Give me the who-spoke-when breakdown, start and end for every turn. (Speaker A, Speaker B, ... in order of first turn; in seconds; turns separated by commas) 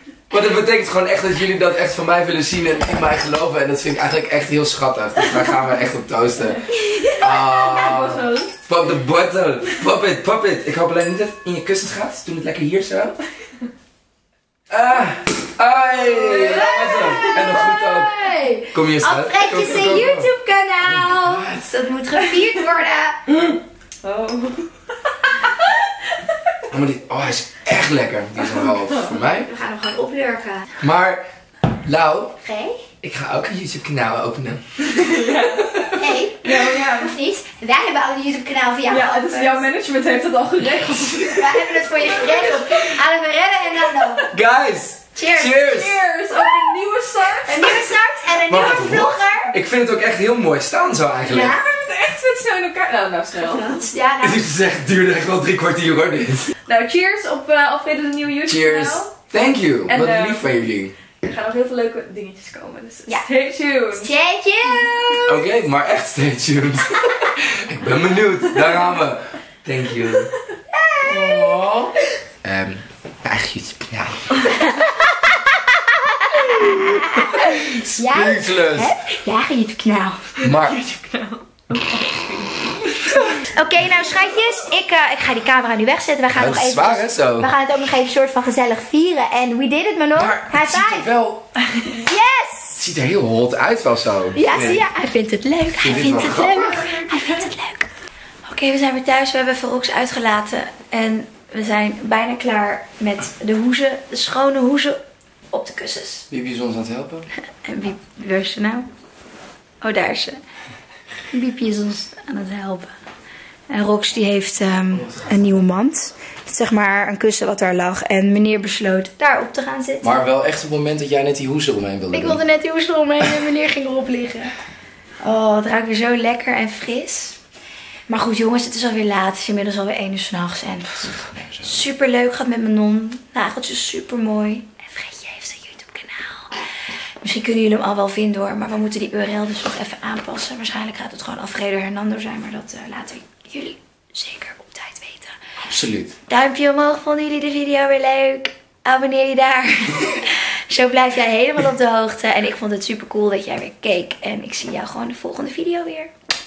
Speaker A: 0.3-13.2, Speaker B: 6.8-8.5, Speaker A: 14.7-18.2, Speaker B: 16.1-17.4, Speaker C: 16.3-23.2, Speaker A: 18.7-20.3, Speaker A: 20.8-21.7, Speaker B: 23.3-24.7, Speaker B: 25.3-25.7, Speaker A: 26.7-29.5, Speaker B: 28.6-29.1, Speaker C: 29.4-30.7, Speaker A: 30.8-31.2, Speaker A: 31.8-32.4, Speaker C: 32.4-32.8, Speaker A: 33.0-35.9, Speaker B: 35.0-35.6, Speaker C: 35.9-39.7, Speaker B: 36.4-37.1, Speaker B: 38.9-42.8, Speaker C: 41.3-44.3, Speaker A: 44.3-46.0, Speaker C: 45.1-45.6, Speaker B: 45.6-48.0, Speaker C: 47.5-49.5, Speaker A: 48.5-51.6, Speaker C: 51.3-51.6, Speaker B: 51.4-53.8, Speaker C: 53.4-54.4, Speaker A: 54.2-56.5, Speaker B: 56.7-59.1, Speaker A: 58.5-60.9, Speaker B: 59.9-60.5, Speaker B: 61.2-65.5, Speaker C: 64.0-65.2, Speaker A: 65.2-70.3, Speaker C: 70.7-71.6, Speaker A: 71.1-74.4, Speaker C: 74.4-80.3, Speaker A: 77.2-79.0, Speaker A: 80.4-80.8, Speaker B: 80.4-83.4, Speaker C: 83.4-91.1, Speaker A: 86.3-87.5, Speaker A: 90.2-91.5, Speaker C: 91.9-92.8, Speaker A: 92.8-94.8, Speaker C: 94.3-97.9, Speaker A: 95.8-96.8, Speaker B: 96.1-97.5, Speaker C: 98.5-105.0, Speaker C: 105.5-106.3, Speaker A: 106.3-107.3, Speaker C: 107.6-108.9, Speaker C: 109.8-110.4, Speaker C: 111.3-112.9, Speaker C: 113.7-120.2, Speaker A: 115.0-115.3, Speaker A: 120.0-122.4, Speaker C: 122.1-124.5, Speaker C: 125.2-127.4, Speaker C: 128.1-136.6, Speaker A: 131.1-131.7, Speaker C: 137.2-145.4, Speaker A: 145.6-146.1, Speaker C: 146.3-156.1